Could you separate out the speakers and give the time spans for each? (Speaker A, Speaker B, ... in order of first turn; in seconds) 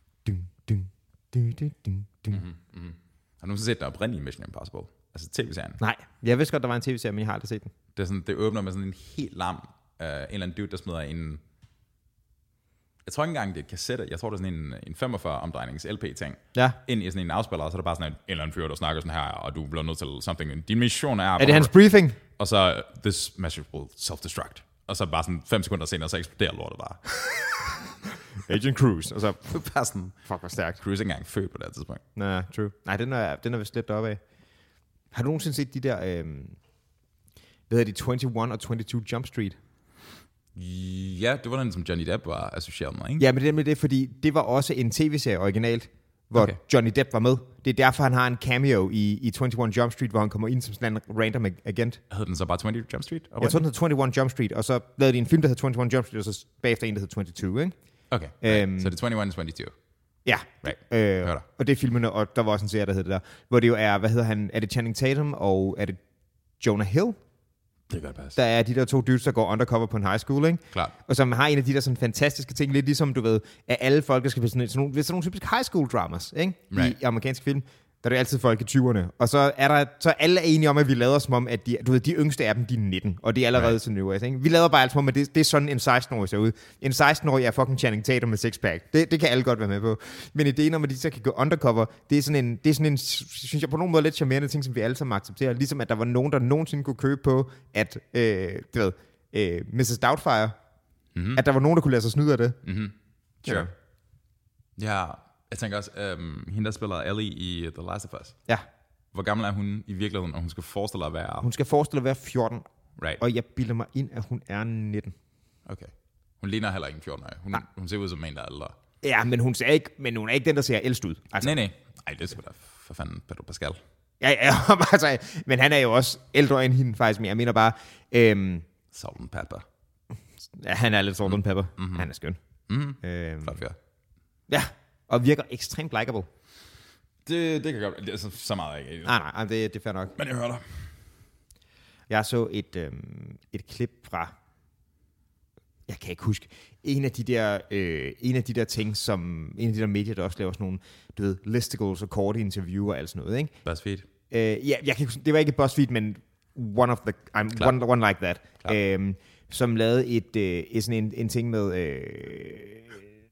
Speaker A: 0.2-2.4, 5.8-7.7, 21.4-22.2, 28.4-29.5, 30.3-30.8, 32.2-34.2, 35.1-36.6, 37.7-39.6, 43.2-52.0, 53.4-57.7, 58.4-59.0, 60.2-66.0, 66.6-67.2, 68.4-100.5, 101.3-102.6, 103.5-103.7, 111.4-112.7, 113.2-115.2, 119.0-121.6, 124.2-128.7, 130.6-132.4, 133.0-133.6, 134.5-136.3, 139.1-140.2, 142.1-144.3, 145.9-153.5, 154.3-163.0
Speaker B: 2.3-5.8, 8.0-11.4, 13.1-21.7, 22.3-27.7, 29.4-30.2, 30.8-32.0, 40.5-43.2, 52.1-53.6, 58.1-59.7, 60.6-61.4, 67.9-68.4, 76.7-77.0, 101.2-101.4, 102.6-103.7, 104.8-108.4, 109.1-111.5, 115.7-118.8, 121.4-123.8, 128.9-129.7, 131.3-132.1, 132.7-133.8, 137.3-139.1, 140.2-140.9, 153.7-154.1